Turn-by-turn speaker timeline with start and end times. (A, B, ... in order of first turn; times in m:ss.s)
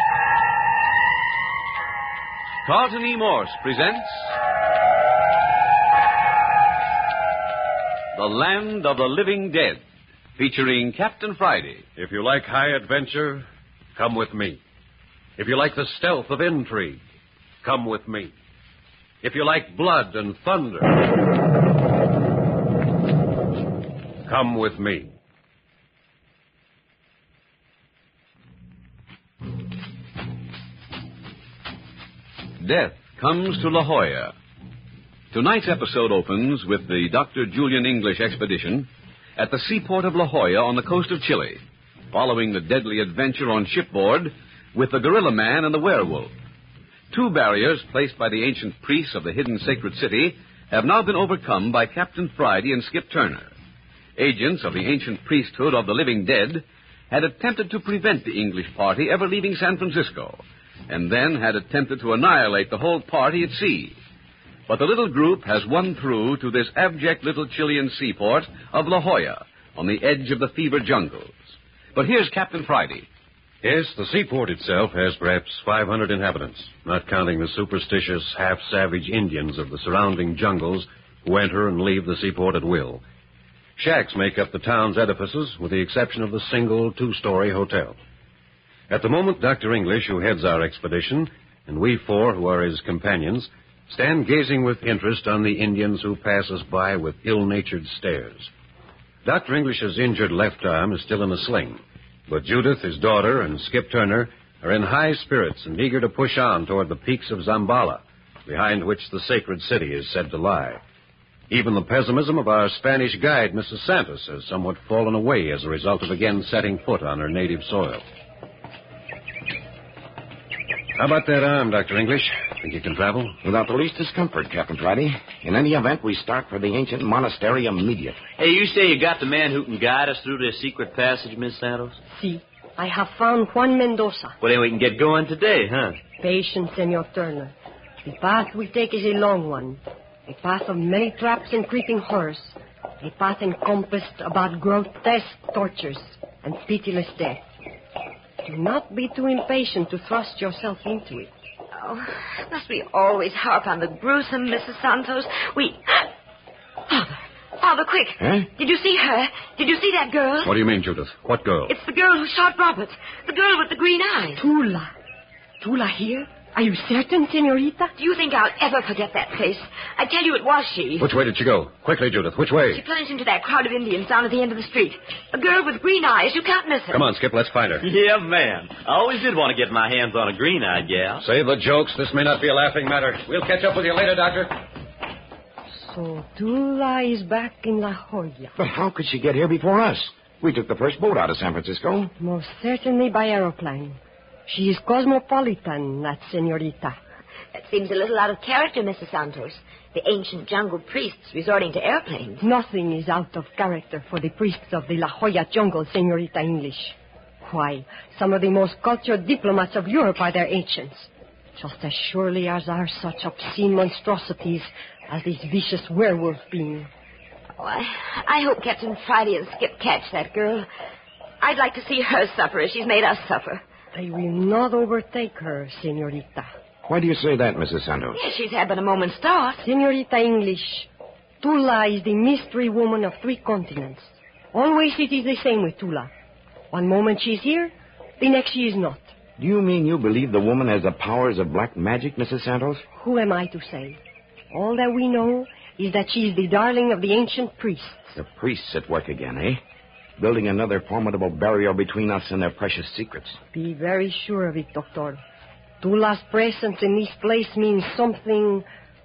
0:02.6-0:04.4 A
0:08.1-0:09.8 A
0:10.4-0:11.8 A
0:12.0-0:14.6 B
0:15.4-0:17.0 B
0:17.6-0:18.3 B
0:19.2-0:21.0 B
0:24.3-0:25.1 B
0:32.6-0:34.3 A
0:35.3-0:41.6 A
0:42.1-0:46.3 A
0:47.1-0:53.5 A
0:54.2-1:04.0 A
1:04.7-1:13.1 A
1:13.6-1:23.0 B
1:23.8-1:28.0 B
1:28.9-1:38.5 B
1:39.2-1:50.8 B
1:51.5-1:58.0 B
2:01.0-2:03.4 B
2:03.4-2:08.2 C
2:08.4-2:12.0 D
2:12.1-2:14.4 E
2:14.4-2:16.0 D
2:16.2-2:17.5 E
2:18.0-2:27.4 E
2:28.4-2:31.3 E
2:31.7-2:36.1 F
2:36.9-2:40.6 F
2:38.2-2:38.5 C
2:40.4-2:41.7 B
2:41.7-2:44.4 F
2:44.4-2:44.9 E
2:45.6-2:47.9 E
2:48.0-2:51.1 F
2:51.0-2:52.8 B
2:52.7-2:57.0 F
2:56.9-2:57.9 B
2:57.8-3:01.2 D
3:01.2-3:04.6 B
3:05.7-3:08.6 E
3:08.6-3:12.1 C
3:12.2-3:17.0 E
3:17.5-3:22.4 F
3:22.4-3:36.9 E
3:37.6-3:40.7 F
3:41.4-3:43.6 F
3:43.9-3:46.5 E
3:46.9-3:48.2 C
3:48.1-3:49.7 F
3:49.6-3:50.9 E
3:51.4-3:56.1 E
3:56.7-3:59.1 E
3:59.4-4:02.8 C
4:02.9-4:04.0 E
4:04.5-4:08.2 E
4:08.2-4:09.6 C
4:10.2-4:13.4 C
4:13.5-4:15.2 E
4:15.8-4:18.7 E